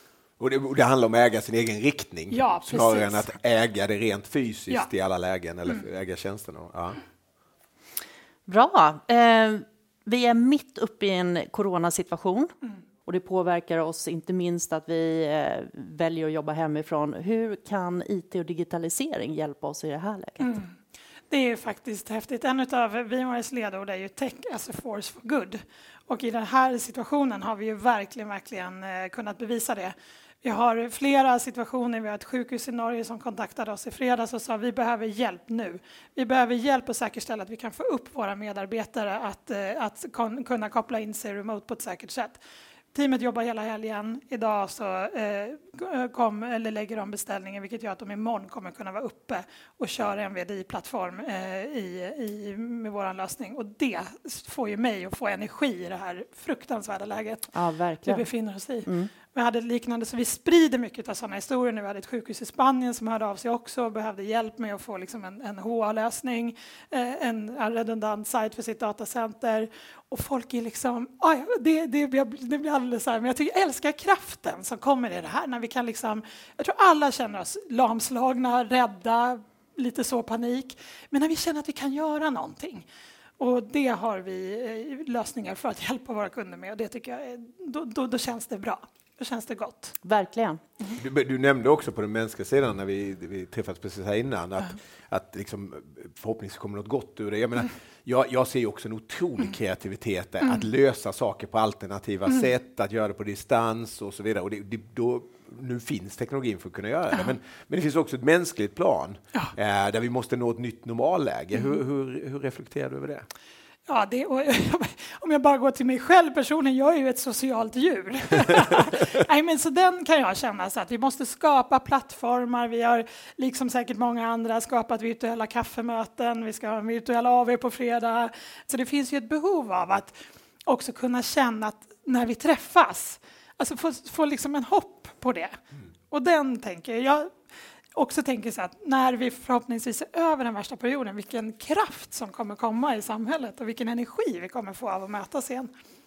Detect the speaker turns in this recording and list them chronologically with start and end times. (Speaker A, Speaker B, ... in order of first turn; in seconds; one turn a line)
Speaker A: 0.4-7.0
Speaker B: 2.3-3.3
Speaker C: 8.5-12.5
Speaker C: 13.1-20.6
Speaker B: 20.4-20.7
Speaker B: 21.3-42.4
Speaker B: 42.9-57.5
Speaker C: 57.5-58.3
Speaker B: 58.0-82.9
Speaker C: 58.9-59.1
Speaker B: 83.4-90.0
Speaker C: 90.0-90.6
Speaker A: 91.0-113.3
Speaker B: 111.5-111.8
Speaker B: 113.9-130.1
Speaker B: 130.7-135.6
Speaker B: 136.1-137.3
Speaker B: 138.0-145.7